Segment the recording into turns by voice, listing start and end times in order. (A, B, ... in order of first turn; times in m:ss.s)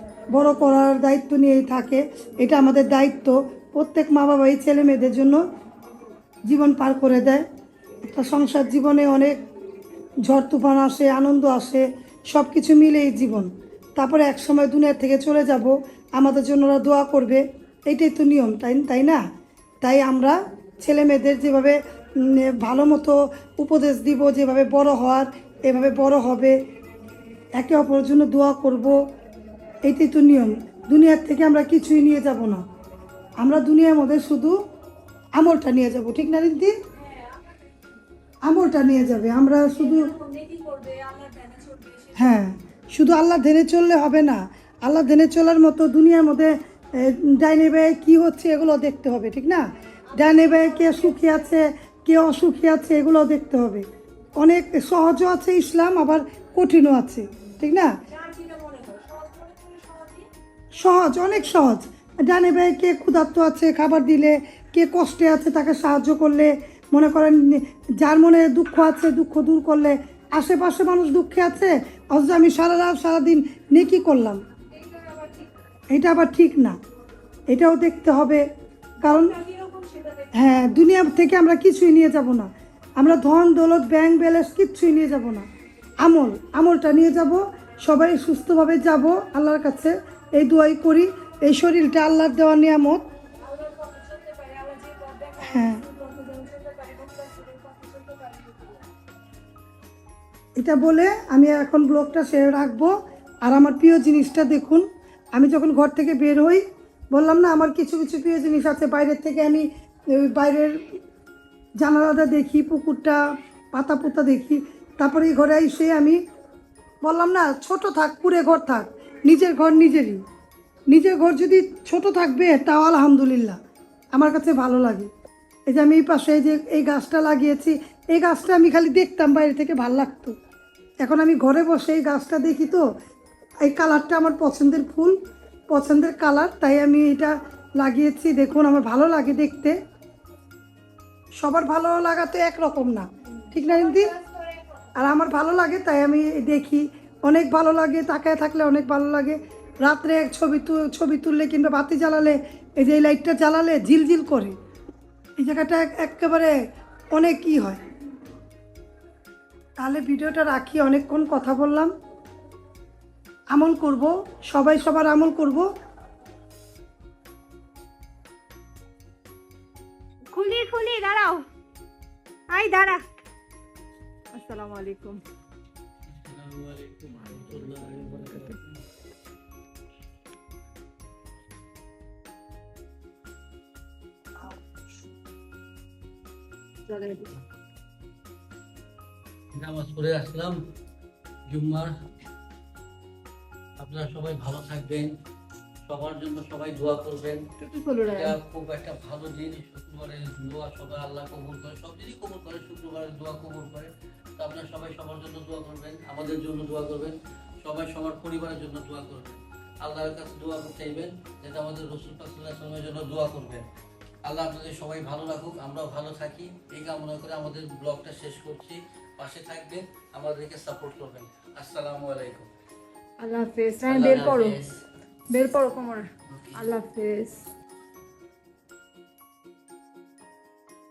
0:00.3-0:05.4 A
0:06.5-0:07.4 A
0:08.0-0:09.4 A
0:10.2-0:19.2 A
0:19.8-0:26.6 A
0:27.6-0:29.0 A
0:29.8-0:32.6 A
0:33.4-0:34.6 A
0:35.4-0:36.7 A
0:37.0-0:37.5 B
0:38.4-0:40.1 A
0:39.8-0:42.3 B
0:42.2-0:49.6 A
0:50.2-0:51.4 B
0:50.2-0:53.8 A
0:54.4-0:57.9 A
0:58.1-1:00.3 B
1:00.8-1:14.4 A
1:14.7-1:15.5 B
1:15.9-1:16.8 A
1:17.5-1:18.4 A
1:19.0-1:19.4 A
1:19.1-1:20.3 B
1:20.4-1:25.5 A
1:26.0-1:33.0 A
1:33.4-1:38.9 B
1:35.4-1:35.8 A
1:40.6-1:51.0 A
1:51.8-1:53.2 A
1:53.7-1:56.2 A
1:57.0-2:00.2 A
2:00.9-2:03.6 A
2:04.1-2:05.1 A
2:05.7-2:10.3 A
2:11.0-2:12.8 A
2:13.6-2:15.2 A
2:15.7-2:19.8 A
2:21.4-2:24.2 A
2:23.5-2:24.6 B
2:25.0-2:34.6 A
2:35.4-2:36.6 A
2:37.1-2:37.8 A
2:39.8-2:41.9 A
2:43.5-2:45.7 A
2:50.3-2:51.4 B
2:52.5-2:53.0 B
2:54.3-2:55.2 B
2:56.1-2:58.8 C
3:06.9-3:07.3 B
3:09.6-3:10.6 C
3:11.5-3:11.9 C
3:13.8-3:15.1 C
3:15.8-3:17.4 C
3:17.6-3:18.4 B
3:18.1-3:33.6 C
3:34.3-3:42.5 C
3:43.2-3:44.6 B
3:43.9-3:44.8 C
3:45.3-3:47.4 B